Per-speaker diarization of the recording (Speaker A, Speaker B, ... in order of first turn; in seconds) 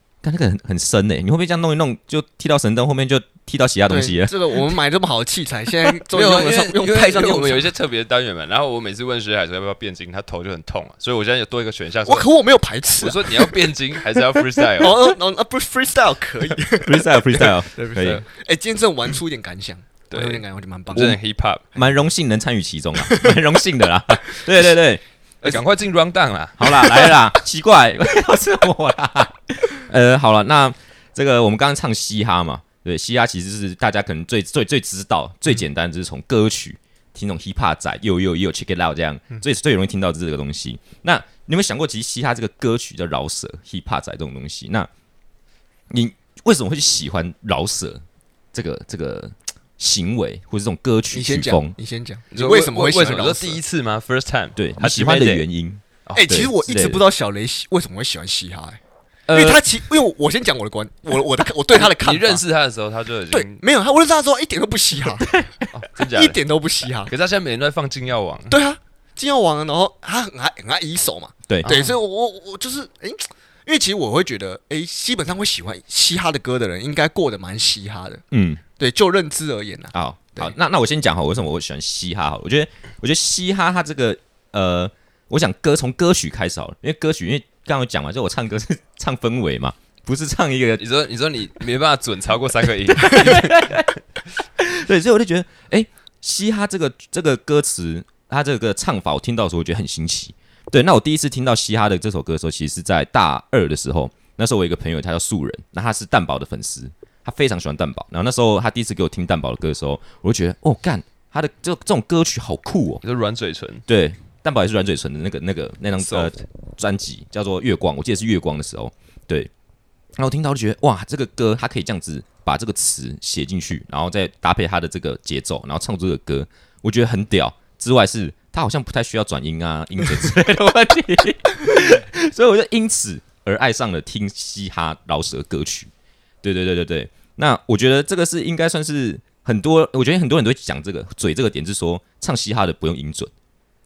Speaker A: 0.2-4.3, 16.8-18.2, 21.8-25.6, 26.6-44.9, 45.9-48.0, 48.5-51.8, 54.6-57.0, 65.2-65.7, 71.5-71.8, 78.3-78.6, 79.9-90.8, 93.0-93.9, 94.6-113.0, 113.9-119.5, 120.2-135.9, 136.4-143.3
Speaker B: 3.9-7.7, 12.0-13.7, 14.7-21.2, 21.7-22.0, 23.1-23.3, 51.1-53.6, 56.1-58.8, 59.3-62.4, 63.3-65.3, 66.0-67.1, 68.5-78.2, 78.8-80.5
Speaker C: 6.0-12.3, 13.0-15.1, 18.0-18.2, 20.1-21.6, 25.4-27.2, 52.3-55.4, 56.0-56.9, 59.3-59.6, 61.7-63.6, 65.7-66.4, 67.0-68.5, 71.6-71.9, 90.8-93.9, 113.0-113.8, 116.0-116.4